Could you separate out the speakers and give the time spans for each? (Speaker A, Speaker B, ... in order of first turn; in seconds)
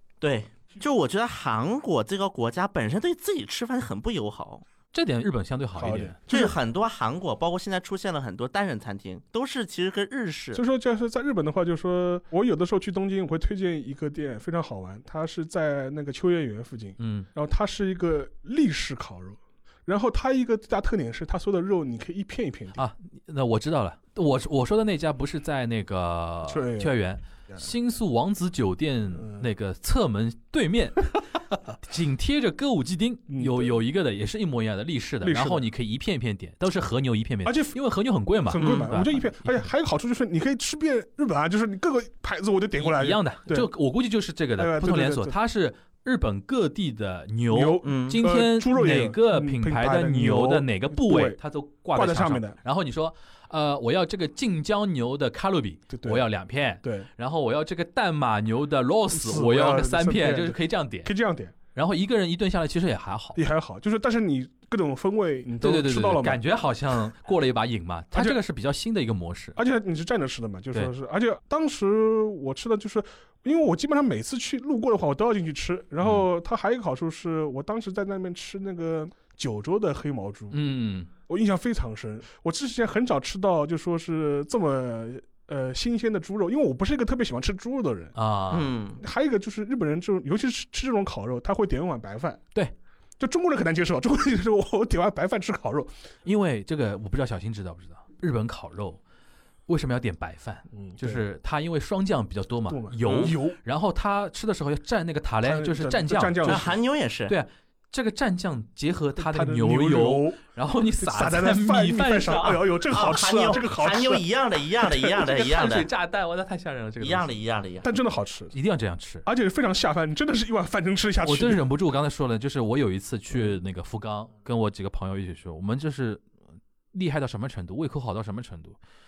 Speaker A: 0.2-4.6, 6.3-10.6, 47.8-48.2, 88.5-89.0, 106.4-107.3, 112.9-115.9, 117.0-117.9
Speaker B: 4.9-6.2, 17.0-17.3, 22.8-39.7, 42.8-61.1, 61.7-63.4, 65.6-69.6, 80.5-81.1, 88.1-88.7, 96.2-99.0, 99.7-106.7, 107.3-112.7, 115.2-117.3, 118.5-119.2, 121.2-126.2, 126.9-128.8
Speaker C: 5.8-6.6, 10.5-22.8, 26.4-26.9, 29.1-29.5, 33.3-33.8, 35.2-35.6, 37.4-37.8, 38.5-43.7, 44.6-45.4, 47.5-51.4, 51.9-52.6, 55.9-56.2, 56.8-57.1, 59.1-61.5, 63.3-66.4, 68.1-68.4, 69.5-80.6, 81.3-88.1, 89.0-92.4, 93.2-95.9, 100.7-101.2, 102.7-103.6, 105.4-106.7, 109.2-110.4, 111.0-114.2, 114.8-115.0, 117.8-118.5, 119.2-121.7